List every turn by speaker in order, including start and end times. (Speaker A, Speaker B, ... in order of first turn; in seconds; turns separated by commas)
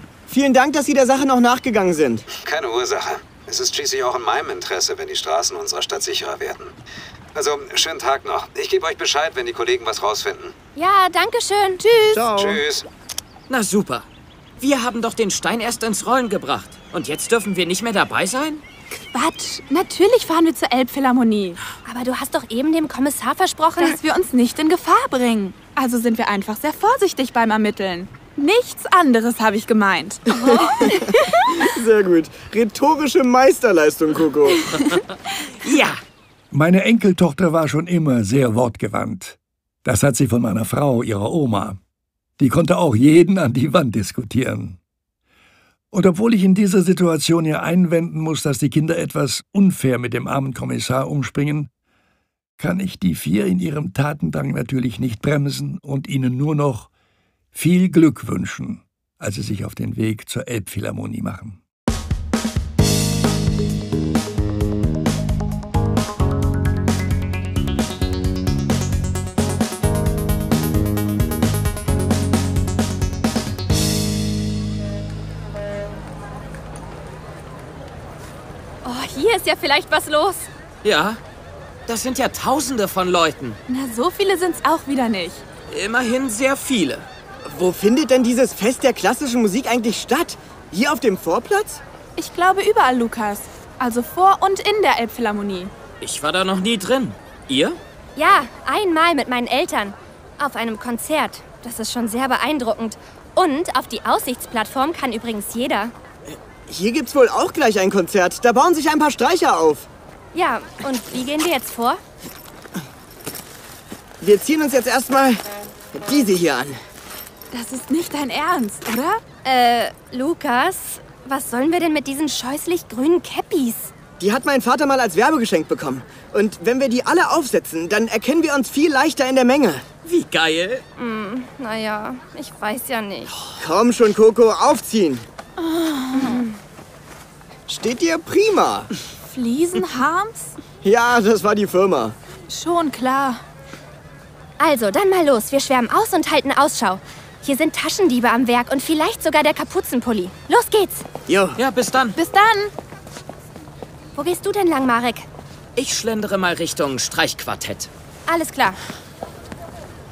Speaker A: 0.3-2.2, Speaker B: 2.4-6.7, Speaker B: 7.3-10.6, Speaker C: 10.8-12.2, Speaker D: 11.8-12.2, Speaker A: 12.1-12.6, Speaker B: 12.3-12.9, Speaker E: 13.5-14.1, Speaker E: 14.6-18.6, Speaker D: 19.1-21.6, Speaker C: 21.9-24.0, Speaker D: 23.8-31.2, Speaker A: 30.3-34.7, Speaker E: 35.6-36.0, Speaker F: 36.5-41.8, Speaker F: 42.4-44.8, Speaker F: 45.9-51.7, Speaker F: 52.6-56.9, Speaker F: 57.5-61.6, Speaker C: 78.8-80.5, Speaker E: 80.8-81.2, Speaker E: 81.9-83.6, Speaker D: 83.7-85.5, Speaker E: 85.7-87.1, Speaker A: 87.5-91.8, Speaker D: 92.2-95.7, Speaker E: 96.0-97.8, Speaker C: 98.2-105.9, Speaker A: 106.3-109.9, Speaker C: 110.3-112.0, Speaker A: 114.2-116.8, Speaker D: 117.5-119.2, Speaker C: 119.4-123.9, Speaker A: 124.2-129.8, Speaker E: 130.0-130.8, Speaker C: 131.0-133.4, Speaker A: 133.6-135.3, Speaker D: 135.6-136.4, Speaker C: 136.1-136.6, Speaker A: 137.7-138.9, Speaker D: 139.3-140.6, Speaker A: 140.8-142.2, Speaker D: 142.5-143.4, Speaker C: 144.6-151.1, Speaker A: 151.3-151.6, Speaker E: 151.6-152.2, Speaker D: 152.2-152.7, Speaker C: 154.1-155.3, Speaker E: 155.8-157.9, Speaker C: 158.3-158.8